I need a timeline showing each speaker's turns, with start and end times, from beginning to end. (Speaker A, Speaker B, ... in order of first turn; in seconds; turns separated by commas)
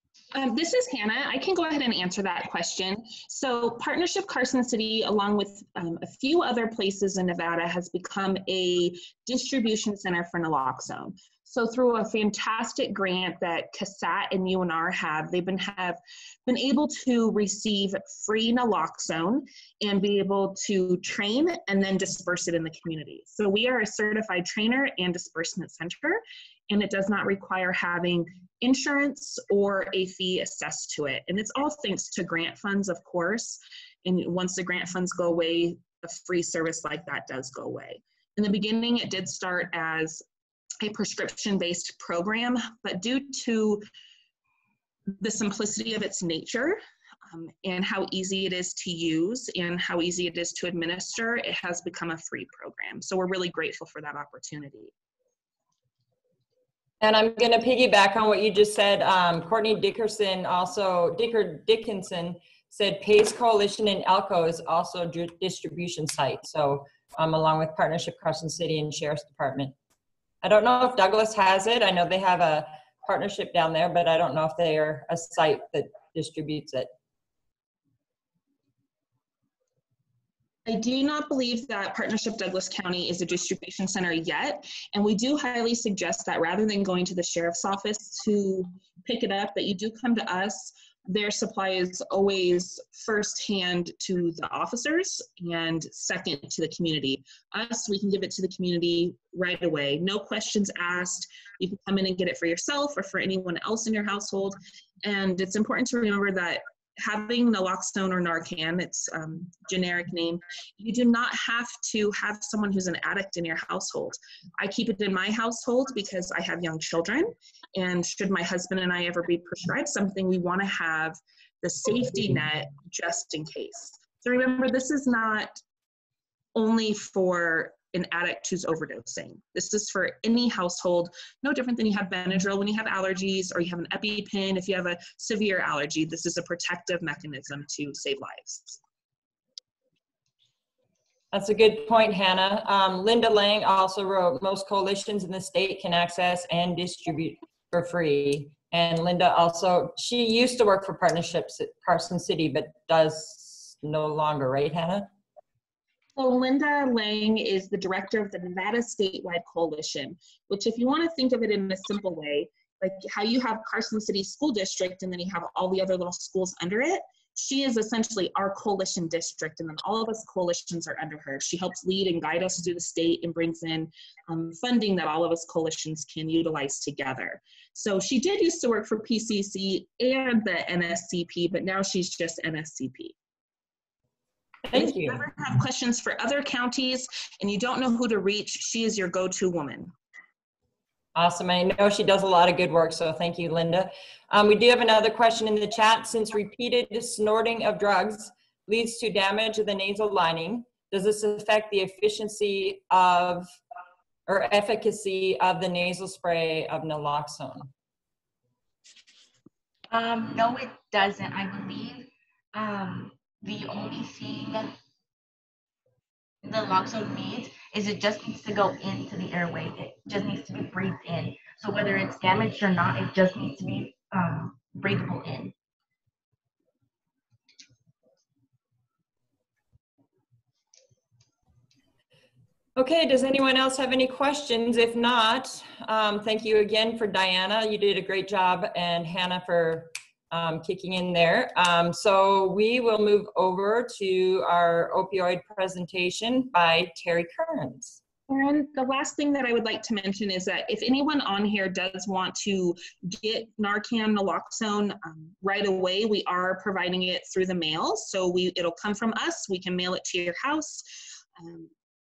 Speaker A: 0.3-40.2, Speaker A: 40.8-43.8, Speaker A: 45.2-54.9, Speaker B: 57.0-69.7, Speaker B: 70.4-76.9, Speaker A: 80.7-125.6, Speaker A: 126.5-138.8, Speaker B: 141.3-155.1, Speaker A: 156.2-183.1, Speaker B: 184.7-185.2, Speaker A: 184.7-189.9, Speaker B: 191.1-203.5, Speaker B: 204.3-207.7, Speaker C: 209.9-214.7, Speaker C: 216.4-225.5, Speaker B: 232.8-248.0, Speaker A: 248.3-260.8, Speaker A: 261.4-261.7